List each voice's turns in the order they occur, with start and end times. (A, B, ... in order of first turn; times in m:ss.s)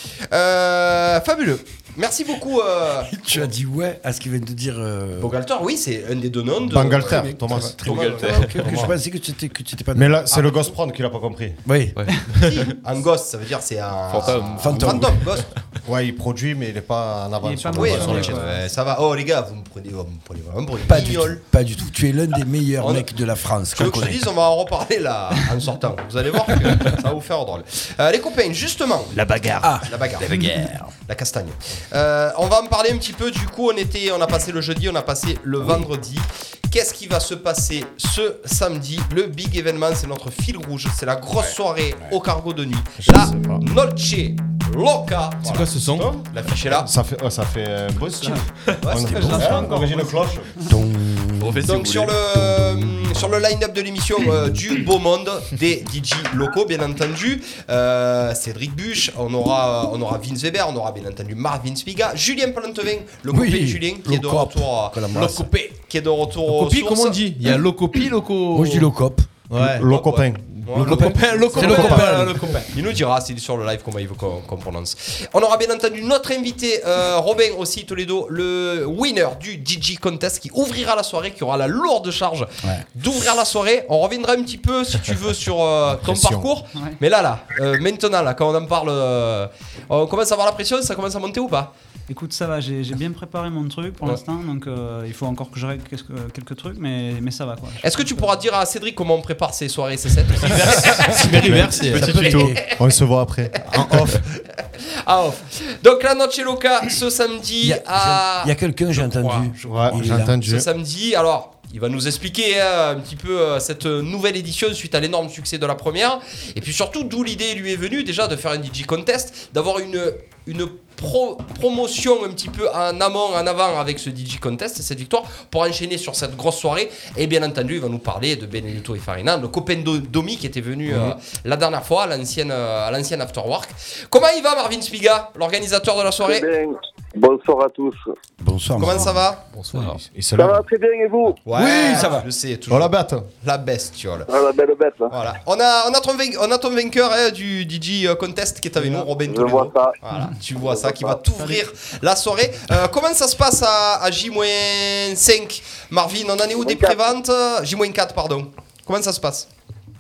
0:00.3-0:03.5 A
0:03.0-0:05.4 B
0:05.2-0:08.9 A
0:06.6-0:09.0 C
0:06.7-0:10.4 B
0:08.3-0:08.5 D
0:09.9-0:11.6 C
0:11.6-0:12.0 B
0:12.0-0:12.7 D
0:12.4-0:15.5 A
0:14.1-0:15.6 D
0:14.6-0:15.3 B
0:15.8-0:18.4 C
0:17.4-0:18.7 E
0:17.8-0:21.4 A
0:18.0-0:18.3 D
0:20.9-0:24.3 B
0:22.8-0:23.1 A
0:23.7-0:30.5 A
0:29.2-0:30.9 B
0:31.1-0:46.9 A
0:43.0-0:43.6 C
0:45.4-0:46.2 F
0:46.0-0:50.5 C
0:48.2-0:50.8 E
0:48.8-0:49.6 A
0:49.3-0:49.7 B
0:50.6-0:51.7 B
0:51.4-0:52.2 D
0:51.6-1:05.1 A
0:52.3-0:53.3 B
1:03.3-1:05.5 B
1:05.1-1:05.8 F
1:05.9-1:07.2 A
1:06.5-1:08.9 F
1:08.5-1:09.3 B
1:09.5-1:09.9 F
1:09.6-1:12.2 C
1:09.8-1:31.7 A
1:10.7-1:12.7 F
1:10.8-1:12.4 B
1:26.0-1:26.6 C
1:26.7-1:27.0 E
1:32.1-1:38.3 E
1:37.8-1:42.8 A
1:40.4-1:42.5 F
1:41.4-1:44.4 C
1:41.8-1:42.6 B
1:43.7-2:16.5 A
1:47.6-1:50.4 B
1:49.7-1:50.7 C
2:16.2-2:18.1 G
2:18.4-2:19.2 B
2:18.8-2:19.5 A
2:19.5-2:20.0 D
2:19.8-2:20.6 C
2:20.4-2:21.4 G
2:21.4-2:24.3 A
2:21.5-2:22.3 B
2:22.7-2:23.3 C
2:24.3-2:25.1 G
2:25.1-2:39.5 A
2:28.8-2:30.0 G
2:30.6-2:31.2 G
2:36.6-2:37.0 G